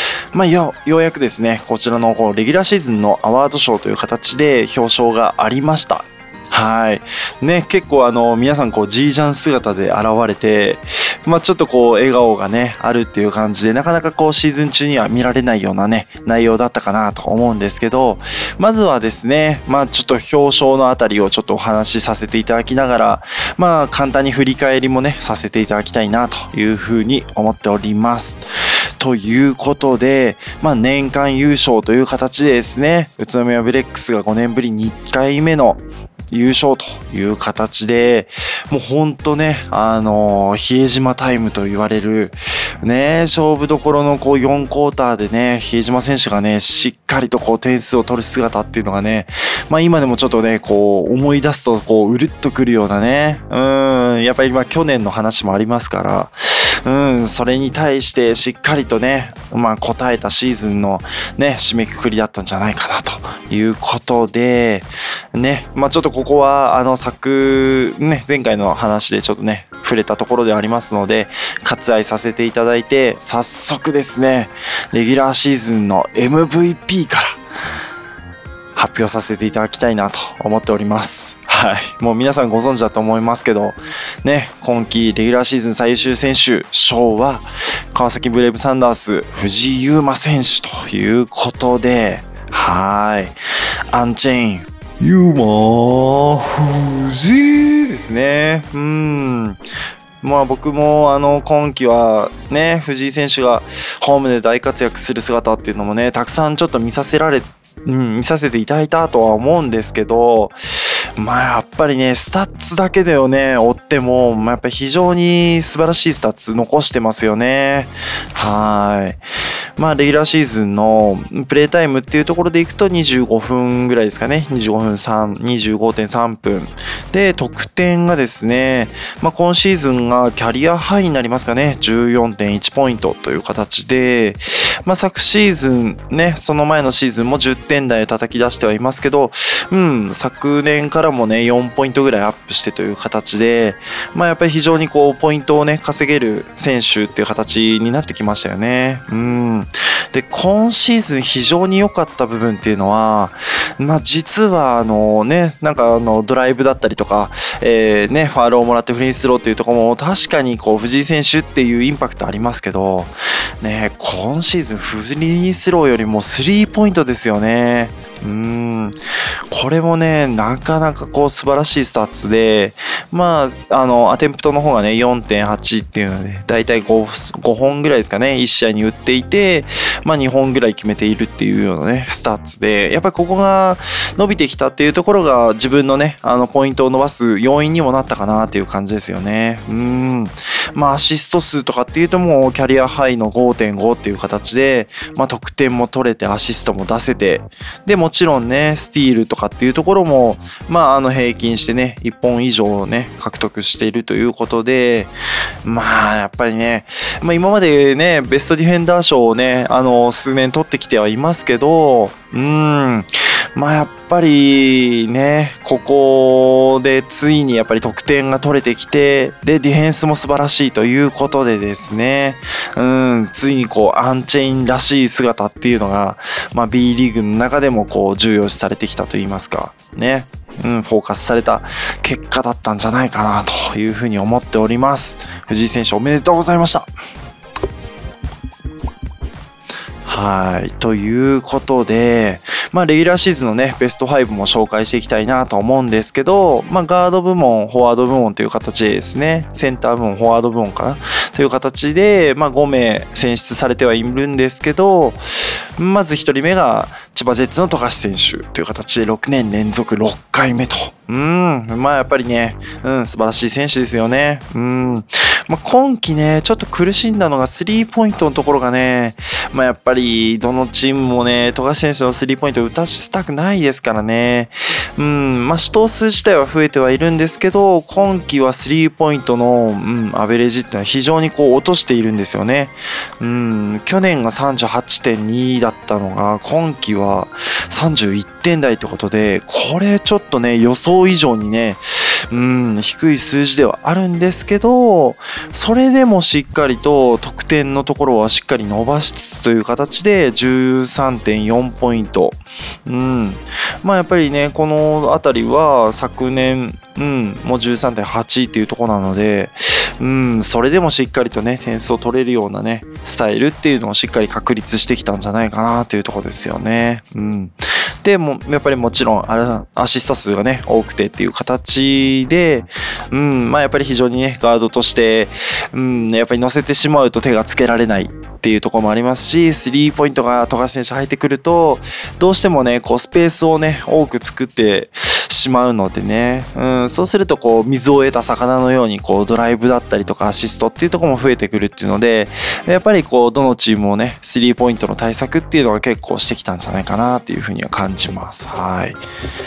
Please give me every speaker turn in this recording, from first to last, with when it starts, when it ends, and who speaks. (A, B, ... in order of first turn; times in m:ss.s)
0:00.3-1:17.4 A
1:18.7-1:33.4 A
1:33.9-1:39.6 A
1:40.2-1:50.6 A
1:51.2-1:59.2 A
1:59.8-2:49.0 A
2:49.5-3:25.1 A
3:25.6-3:56.9 A
4:00.0-4:15.2 A
4:15.8-5:49.0 A